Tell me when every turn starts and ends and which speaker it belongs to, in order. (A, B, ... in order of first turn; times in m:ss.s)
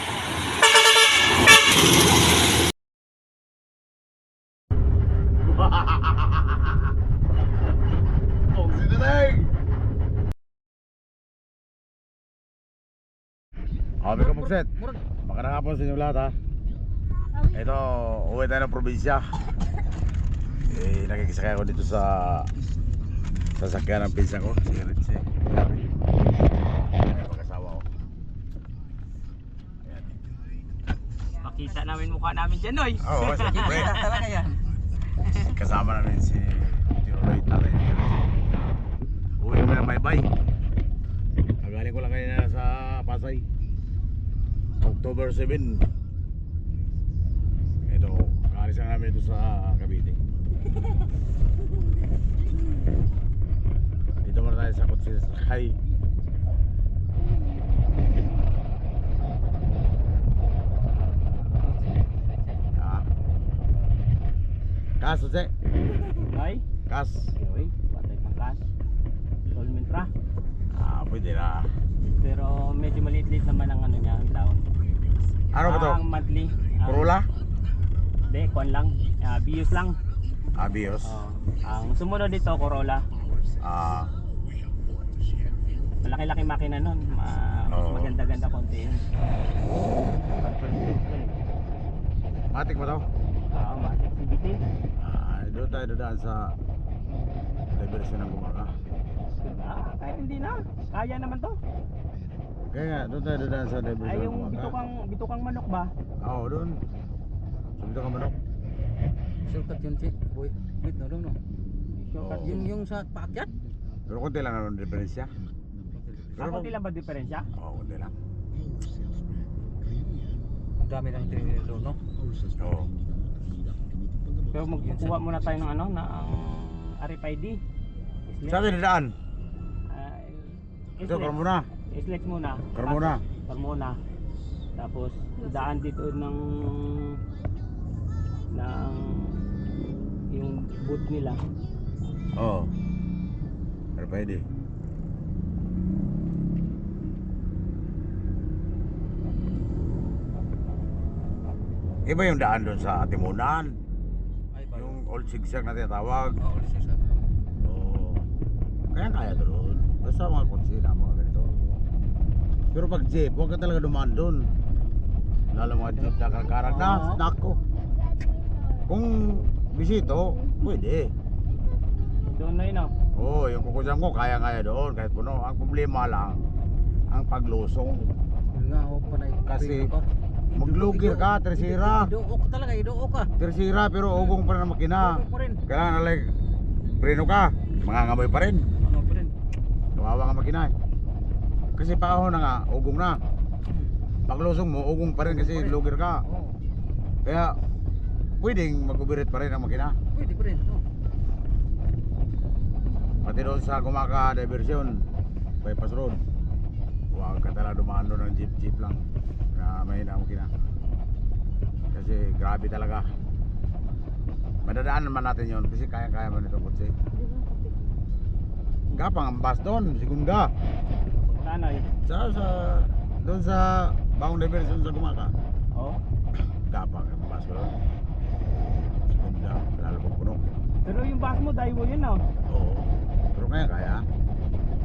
0:05.6-0:06.6 A
0:08.5-0:09.5 A
0:14.0-0:14.7 A
0:14.2-0:15.0 B
0:15.2-0:16.4 A
0:17.4-0:19.3 A
0:20.6-0:22.5 A
0:23.6-0:25.9 A
0:26.9-0:27.9 A
0:29.8-0:30.2 A
0:31.4-0:34.3 C
0:33.0-0:34.0 A
0:33.5-0:34.6 B
0:35.4-0:38.4 A
0:39.4-0:40.3 A
0:41.6-0:43.5 A
0:44.8-0:45.9 A
0:47.8-0:50.2 A
0:54.2-0:55.8 A
1:01.6-1:01.9 C
1:02.8-1:03.1 A
1:05.0-1:05.5 A
1:06.1-1:06.6 C
1:06.9-1:07.3 A
1:07.4-1:08.6 C
1:09.5-1:10.1 C
1:10.7-1:11.7 A
1:12.2-1:14.6 C
1:15.5-1:16.0 A
1:15.6-1:17.1 C
1:16.8-1:17.3 A
1:18.2-1:20.0 C
1:20.6-1:21.2 A
1:21.0-1:23.0 C
1:23.6-1:24.1 A
1:26.0-1:29.0 C
1:27.7-1:28.1 A
1:30.4-1:31.3 C
1:32.5-1:33.0 A
1:33.5-1:34.6 C
1:35.0-1:36.5 A
1:37.7-1:38.7 A
1:39.4-1:41.6 C
1:42.7-1:44.8 A
1:44.0-1:45.9 C
1:46.2-1:46.8 A
1:47.8-1:48.3 A
1:49.4-1:51.4 B
1:52.1-1:52.6 C
1:52.2-1:52.6 A
1:52.4-1:53.5 B
1:54.1-1:55.3 A
1:55.9-1:56.4 B
1:56.4-1:56.7 A
1:56.4-1:57.5 C
1:57.6-1:58.1 A
2:00.8-2:02.0 B
2:02.6-2:02.9 A
2:04.5-2:07.6 C
2:04.8-2:05.6 B
2:08.3-2:08.7 C
2:08.4-2:09.1 A
2:09.9-2:14.0 C
2:11.0-2:11.7 A
2:12.7-2:13.2 A
2:14.8-2:17.2 C
2:18.5-2:19.4 C
2:20.3-2:21.4 C
2:22.4-2:22.7 A
2:24.0-2:24.4 A
2:32.1-2:33.8 A
2:34.5-2:35.0 B
2:34.7-2:36.4 A
2:36.4-2:37.3 B
2:37.6-2:38.3 A
2:38.9-2:41.5 A
2:42.7-2:44.5 A
2:45.5-2:47.6 A
2:46.6-2:47.2 B
2:48.9-2:51.1 A
2:52.3-2:52.9 C
2:53.1-2:56.4 A
2:57.1-2:58.1 A
2:58.5-3:03.3 B
2:59.4-3:00.0 A
3:00.5-3:02.1 A
3:03.4-3:06.4 A
3:05.0-3:05.6 B
3:07.0-3:08.7 A
3:08.8-3:09.3 B
3:10.0-3:10.7 A
3:11.8-3:13.2 A
3:14.3-3:16.2 A
3:15.3-3:16.6 B
3:17.2-3:17.6 A
3:18.4-3:20.0 A
3:20.1-3:20.8 B
3:23.2-3:25.1 A
3:25.6-3:26.2 A
3:27.1-3:30.5 A
3:31.9-3:33.1 A
3:34.6-3:36.9 A
3:38.9-3:40.5 A
3:41.4-3:41.9 C
3:42.0-3:45.3 A
3:45.7-3:46.0 C
3:46.5-3:47.7 A
3:49.1-3:50.4 A
3:50.8-3:52.2 C
3:52.5-3:54.1 A